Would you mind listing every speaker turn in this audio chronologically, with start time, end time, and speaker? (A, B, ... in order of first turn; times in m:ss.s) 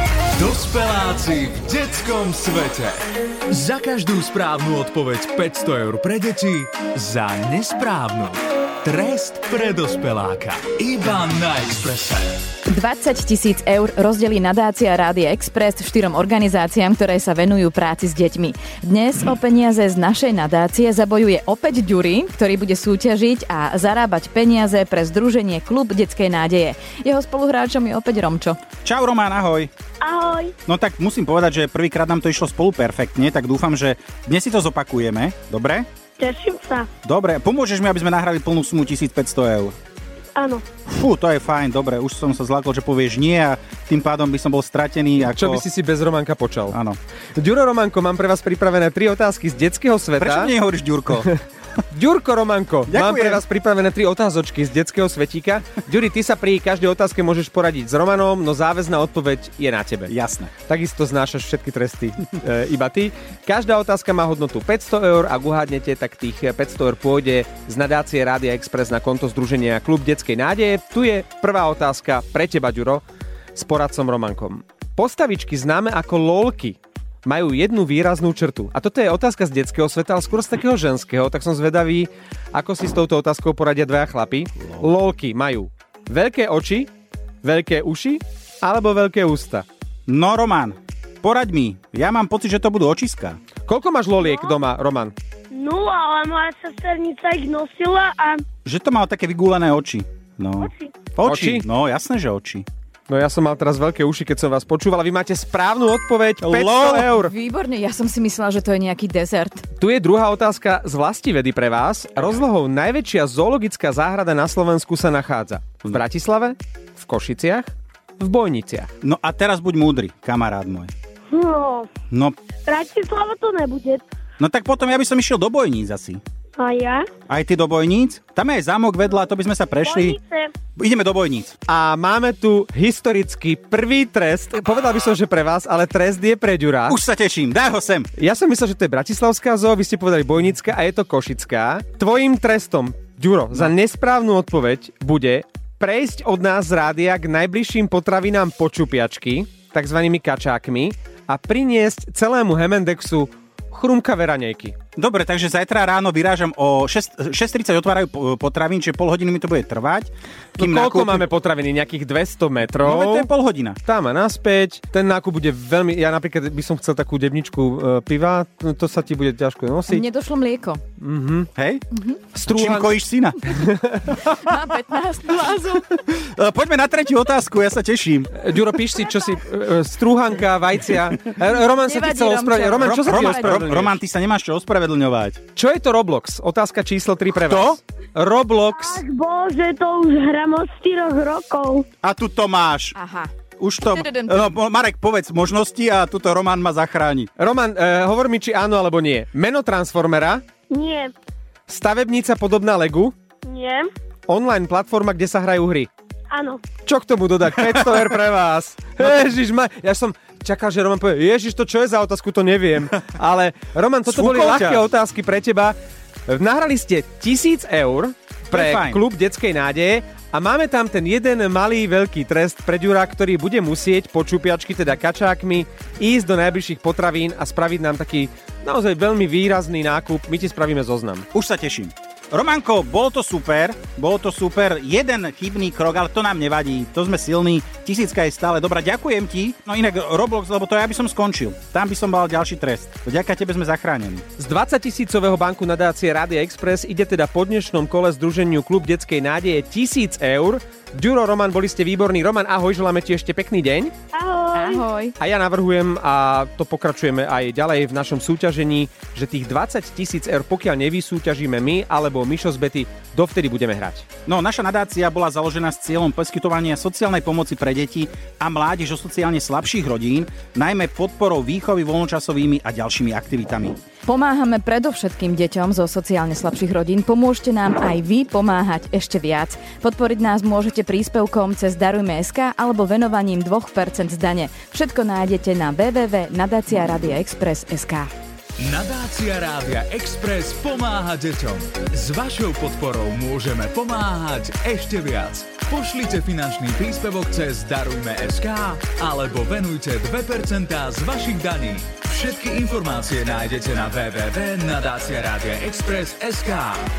0:00.4-0:12.3 A
0:12.7-0:28.6 B
0:28.8-0:29.7 C
0:30.0-0:30.5 D
0:30.7-0:35.9 C
0:36.2-0:36.9 D
0:37.0-0:39.8 C
0:40.4-0:40.6 D
0:40.9-0:45.6 C
0:45.2-0:46.8 E
0:46.7-0:47.0 C
0:47.4-0:50.5 E
0:50.2-0:51.3 C
0:51.1-0:51.4 E
0:51.9-1:00.1 E
0:52.9-0:53.4 C
1:00.1-1:00.5 C
1:00.7-1:26.9 E
1:27.4-1:29.7 E
1:30.1-1:33.4 C
1:33.7-1:35.2 E
1:34.2-1:34.6 D
1:35.5-1:38.4 D
1:38.6-1:42.7 C
1:40.6-1:40.9 D
1:41.2-1:41.7 E
1:43.1-1:47.3 E
1:46.4-1:47.1 C
1:47.0-1:49.6 B
1:49.8-1:58.9 E
1:59.0-2:00.9 C
2:01.3-2:01.9 D
2:02.1-2:02.4 C
2:02.7-2:04.0 D
2:04.4-2:06.2 C
2:06.6-2:07.1 D
2:07.3-2:10.2 C
2:09.8-2:10.5 D
2:10.8-2:11.6 C
2:11.7-2:17.0 E
2:16.9-2:18.1 C
2:18.2-2:34.8 E
2:35.0-2:41.3 C
2:40.6-2:43.3 E
2:42.8-2:43.8 C
2:43.8-2:50.0 E
2:49.9-2:50.8 B
2:51.0-2:51.5 E
2:51.6-2:53.6 C
2:51.9-2:52.2 B
2:52.4-2:52.9 E
2:53.6-2:54.0 E
2:54.1-2:55.8 B
2:55.9-2:58.3 C
2:58.4-3:04.0 E
3:01.8-3:03.6 B
3:02.8-3:05.4 C
3:05.6-3:09.0 E
3:07.3-3:07.8 C
3:08.7-3:11.9 D
3:12.0-3:13.0 C
3:13.0-3:13.3 B
3:13.6-3:17.3 C
3:13.8-3:14.5 B
3:17.4-3:20.4 E
3:20.7-3:21.1 D
3:21.7-3:23.1 E
3:23.5-3:23.9 D
3:24.3-3:25.9 E
3:26.3-3:26.6 D
3:26.8-3:35.8 E
3:34.1-3:34.8 C
3:36.3-3:51.3 E
3:38.5-3:39.0 C
3:51.3-4:04.2 C
4:04.4-4:13.9 E
4:14.1-4:14.9 D
4:14.5-4:15.2 B
4:15.2-4:24.1 E
4:24.3-4:33.8 C
4:34.1-4:48.1 B
4:48.6-5:06.8 A